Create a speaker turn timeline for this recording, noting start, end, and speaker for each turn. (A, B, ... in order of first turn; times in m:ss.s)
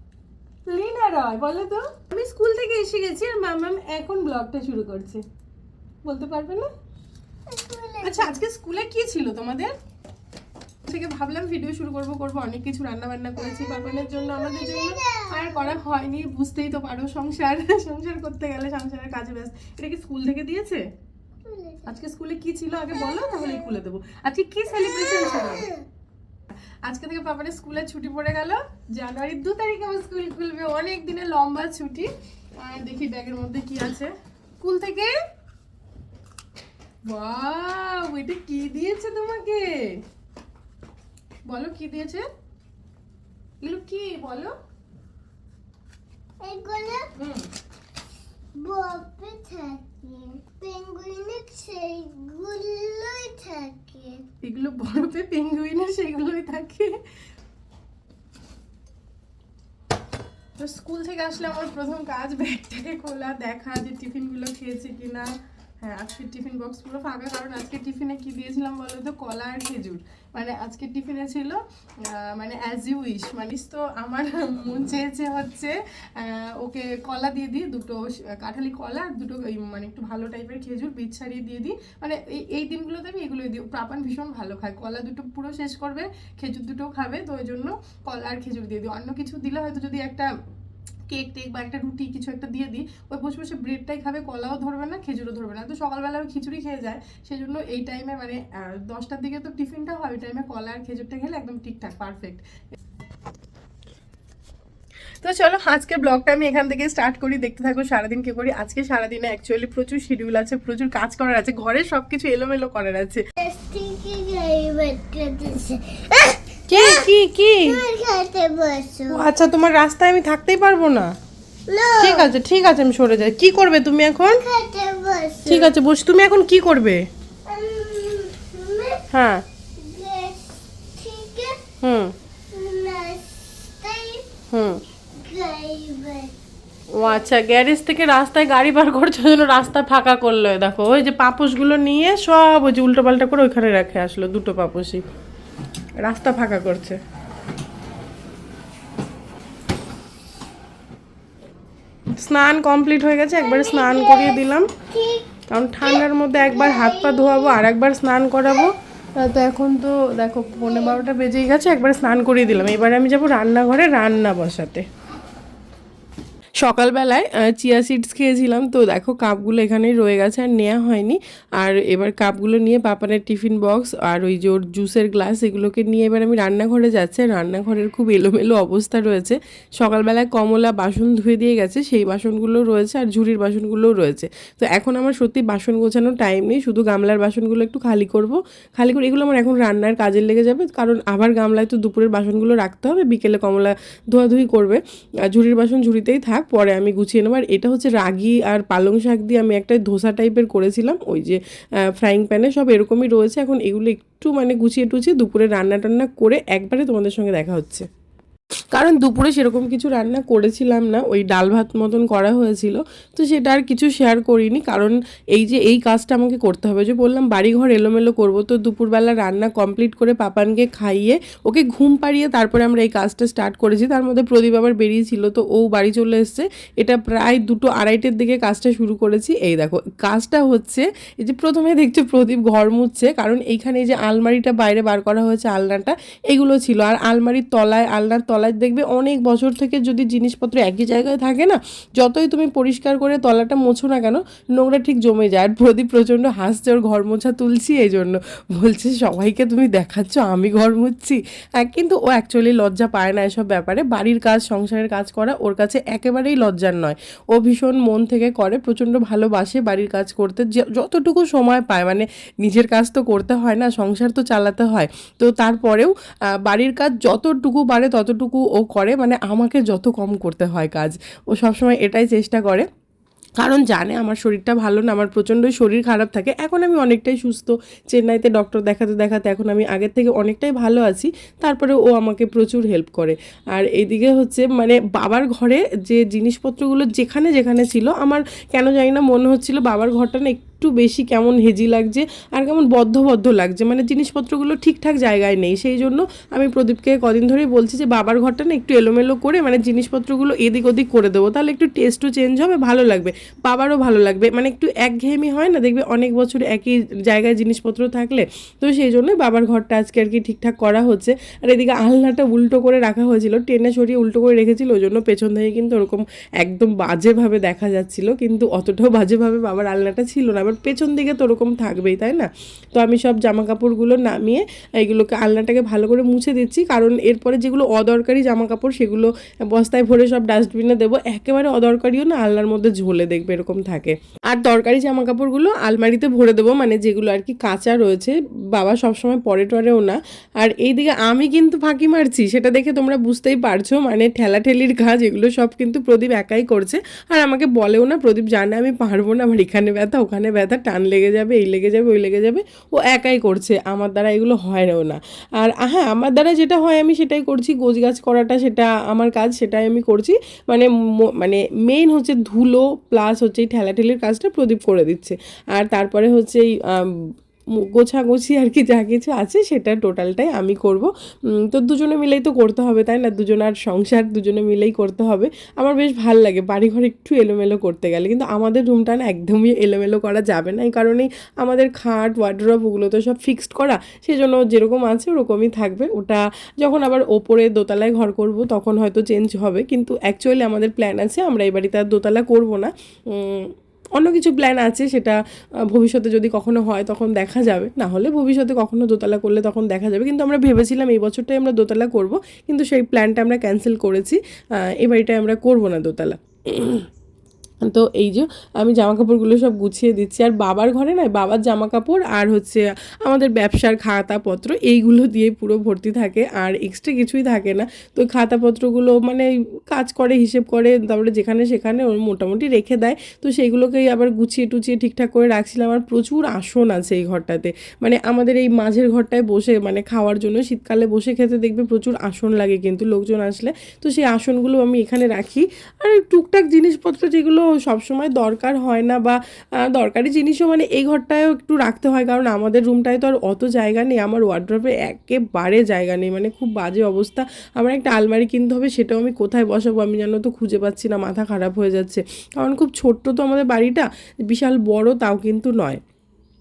0:00.6-0:05.2 A
0:06.0-0:06.7 A
0:07.5-0:08.4 B
0:08.0-0:09.7 A
0:10.8-0:20.8 A
0:13.4-0:15.8 B
0:21.4-0:21.9 B
0:21.8-0:25.7 A
0:23.1-0:23.7 B
0:24.8-0:25.8 B
0:26.8-0:35.1 A
0:37.1-0:40.0 A
0:41.4-0:42.2 A
0:43.6-0:44.5 A
0:46.4-0:47.1 B
0:47.1-0:47.5 A
0:48.5-0:54.2 B
0:54.4-0:57.0 A
1:00.6-1:30.3 A
1:31.1-1:42.4 A
1:45.2-1:53.2 A
1:53.4-1:59.4 B
1:56.7-1:57.8 A
1:59.1-2:01.1 A
2:01.7-2:02.3 B
2:02.0-2:04.4 A
2:04.3-2:05.7 B
2:05.4-2:07.1 A
2:07.4-2:09.0 B
2:09.1-2:09.4 A
2:09.8-2:11.6 B
2:11.8-2:12.1 A
2:12.5-2:14.3 B
2:14.5-2:14.8 A
2:15.2-2:16.3 B
2:16.9-2:25.0 A
2:26.0-2:27.0 A
2:32.1-2:34.7 A
2:33.4-2:37.6 B
2:35.5-2:44.8 A
2:40.6-2:41.0 B
2:46.6-3:21.4 A
3:22.0-3:27.9 A
3:28.7-4:25.9 A
4:26.4-4:32.6 A
4:33.4-6:06.9 A
6:07.7-6:46.8 A
6:47.6-7:35.8 A